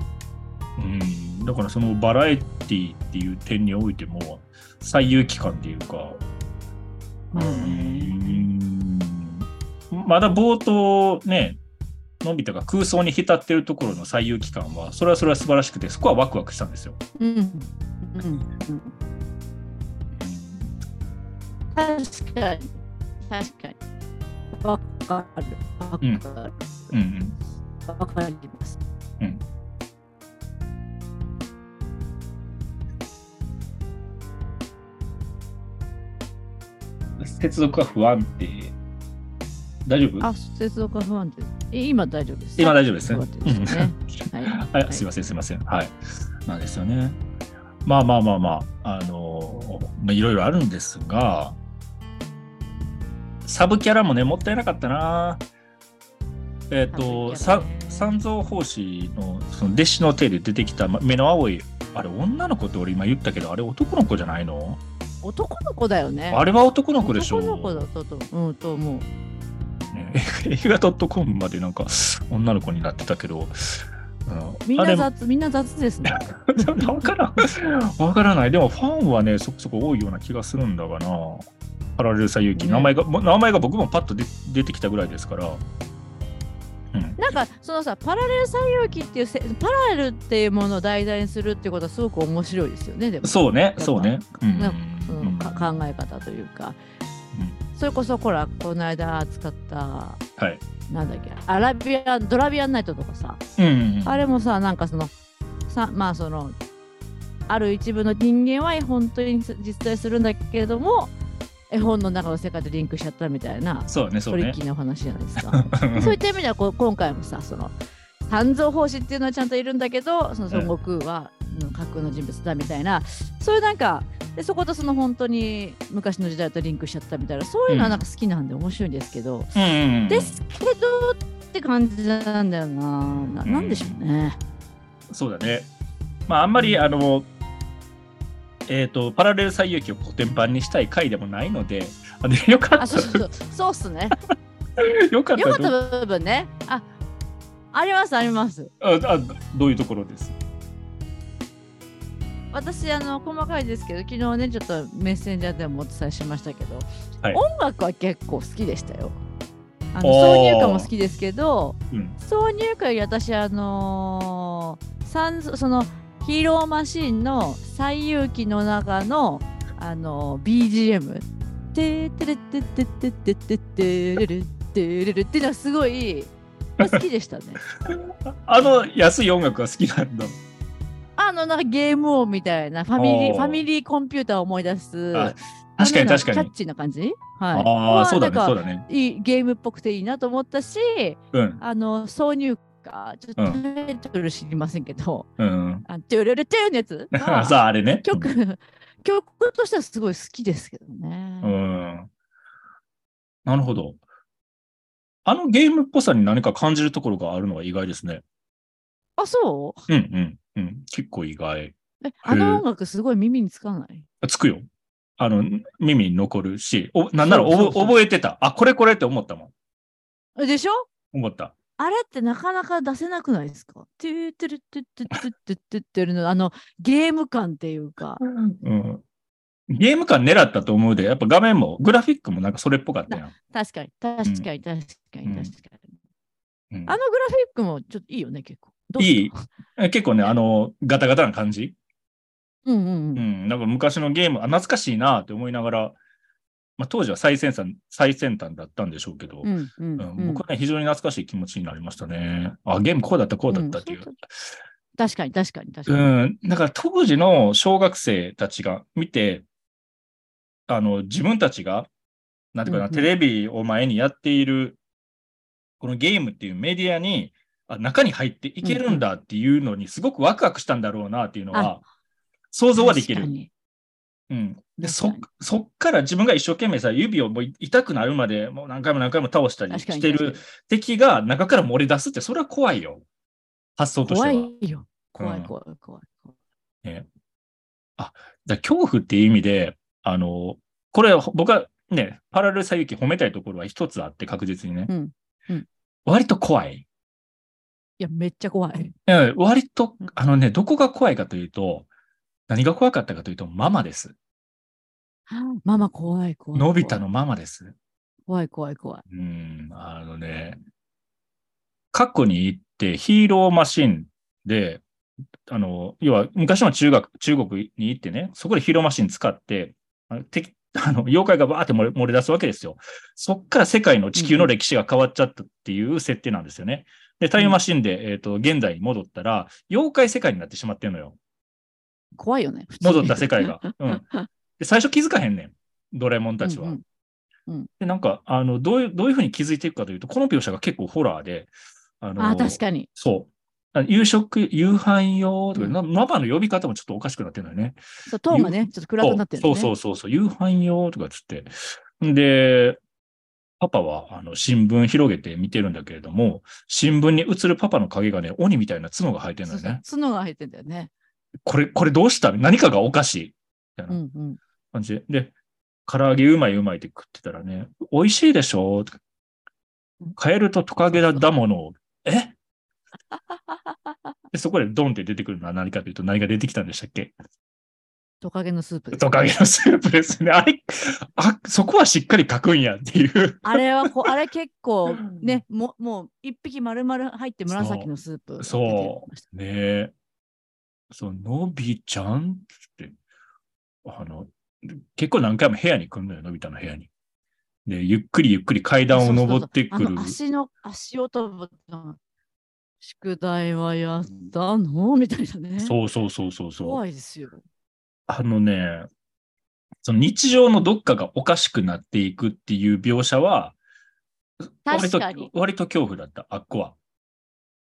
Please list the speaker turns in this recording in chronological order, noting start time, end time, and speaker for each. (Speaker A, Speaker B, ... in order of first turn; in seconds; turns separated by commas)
Speaker A: 0.8-6.2, Speaker B: 7.3-8.5, Speaker A: 7.3-11.6, Speaker A: 12.2-17.0, Speaker B: 17.2-18.9, Speaker A: 20.2-20.7, Speaker B: 21.7-23.8, Speaker B: 24.5-26.9, Speaker A: 26.9-27.4, Speaker B: 27.9-28.8, Speaker A: 37.2-38.8, Speaker A: 39.9-40.3, Speaker B: 40.2-45.1, Speaker A: 42.6-44.0, Speaker A: 44.5-47.2, Speaker A: 47.9-51.6, Speaker A: 53.5-55.4, Speaker A: 56.7-64.8, Speaker B: 56.9-58.1, Speaker B: 65.2-66.4, Speaker A: 66.3-67.9, Speaker B: 67.0-69.1, Speaker A: 69.9-75.1, Speaker B: 74.7-77.1, Speaker A: 76.1-85.6, Speaker B: 82.6-83.0, Speaker A: 86.9-87.2, Speaker B: 87.2-96.8, Speaker A: 93.2-95.7, Speaker B: 97.8-100.2, Speaker B: 100.9-103.4, Speaker A: 103.6-104.2, Speaker B: 104.0-105.1, Speaker B: 105.7-106.5, Speaker B: 107.5-111.1, Speaker B: 111.7-117.8, Speaker A: 113.9-114.6, Speaker A: 115.5-116.2, Speaker B: 118.3-129.5, Speaker A: 127.7-128.0, Speaker A: 129.6-130.4, Speaker B: 130.1-134.4, Speaker A: 133.4-134.0, Speaker A: 135.1-135.7, Speaker A: 136.3-137.3, Speaker B: 136.6-136.8, Speaker A: 138.7-143.2, Speaker B: 142.8-144.2, Speaker A: 144.8-145.8, Speaker B: 145.4-146.9, Speaker B: 147.7-148.7, Speaker A: 148.8-150.3, Speaker B: 152.5-159.2, Speaker B: 159.9-177.6, Speaker A: 160.0-160.9, Speaker A: 161.9-162.2, Speaker A: 177.9-180.4, Speaker B: 181.2-195.3, Speaker A: 183.0-183.7, Speaker A: 185.1-186.5, Speaker A: 187.5-188.8, Speaker A: 191.3-191.6, Speaker A: 195.4-195.9, Speaker B: 195.9-201.6, Speaker A: 197.2-198.3, Speaker A: 201.4-202.1, Speaker A: 203.5-204.0, Speaker A: 205.2-208.2, Speaker B: 209.2-209.9, Speaker A: 209.9-211.7, Speaker B: 212.0-214.1, Speaker A: 212.2-212.6, Speaker A: 214.2-214.7, Speaker A: 215.2-219.5, Speaker B: 217.2-218.0, Speaker B: 220.4-220.9, Speaker A: 221.1-221.5, Speaker B: 221.8-228.2, Speaker A: 228.2-229.0, Speaker A: 229.7-233.3, Speaker B: 233.1-235.9, Speaker A: 235.3-235.5, Speaker A: 236.7-237.0, Speaker B: 236.9-239.5, Speaker A: 239.0-241.8, Speaker B: 242.7-243.3, Speaker A: 243.2-246.0, Speaker A: 246.8-254.1, Speaker B: 249.4-250.4, Speaker B: 253.5-254.2, Speaker B: 255.0-256.1, Speaker A: 255.9-259.4, Speaker A: 260.7-261.9, Speaker A: 262.5-264.8, Speaker B: 262.7-263.1, Speaker A: 265.8-271.8, Speaker B: 268.6-269.0, Speaker A: 272.5-273.3, Speaker B: 272.8-273.5, Speaker A: 274.3-283.1, Speaker B: 274.8-275.2, Speaker B: 279.7-280.4, Speaker A: 283.8-284.5, Speaker B: 284.1-286.3, Speaker A: 285.1-285.5, Speaker A: 288.0-294.9, Speaker B: 294.9-295.7, Speaker A: 296.1-296.9, Speaker B: 298.0-298.9, Speaker A: 299.1-301.9, Speaker A: 302.5-304.1, Speaker B: 305.3-307.0, Speaker A: 306.6-307.8, Speaker B: 308.3-309.0, Speaker A: 309.1-310.6, Speaker A: 311.9-314.8, Speaker A: 315.5-331.2, Speaker B: 324.2-324.5, Speaker B: 332.2-334.3, Speaker A: 332.8-334.1, Speaker A: 334.6-336.8, Speaker B: 336.4-336.8, Speaker A: 337.8-347.8, Speaker B: 342.2-342.9, Speaker B: 348.1-349.7, Speaker A: 348.3-352.8, Speaker A: 353.6-359.8, Speaker B: 359.5-360.9, Speaker A: 361.4-364.0, Speaker B: 363.9-364.4, Speaker A: 364.7-365.3, Speaker A: 365.9-369.0, Speaker A: 370.2-372.4, Speaker B: 371.0-371.2, Speaker A: 374.3-377.1, Speaker B: 378.2-379.2, Speaker A: 378.9-384.1, Speaker B: 383.4-389.2, Speaker A: 385.0-385.4, Speaker A: 387.5-389.9, Speaker A: 390.9-392.9, Speaker A: 393.8-396.9, Speaker A: 397.7-400.2, Speaker B: 398.9-402.0, Speaker B: 402.8-405.8, Speaker A: 405.6-406.8, Speaker B: 406.6-407.4, Speaker A: 408.1-408.9, Speaker A: 409.8-413.6, Speaker A: 414.6-416.8, Speaker B: 414.7-415.3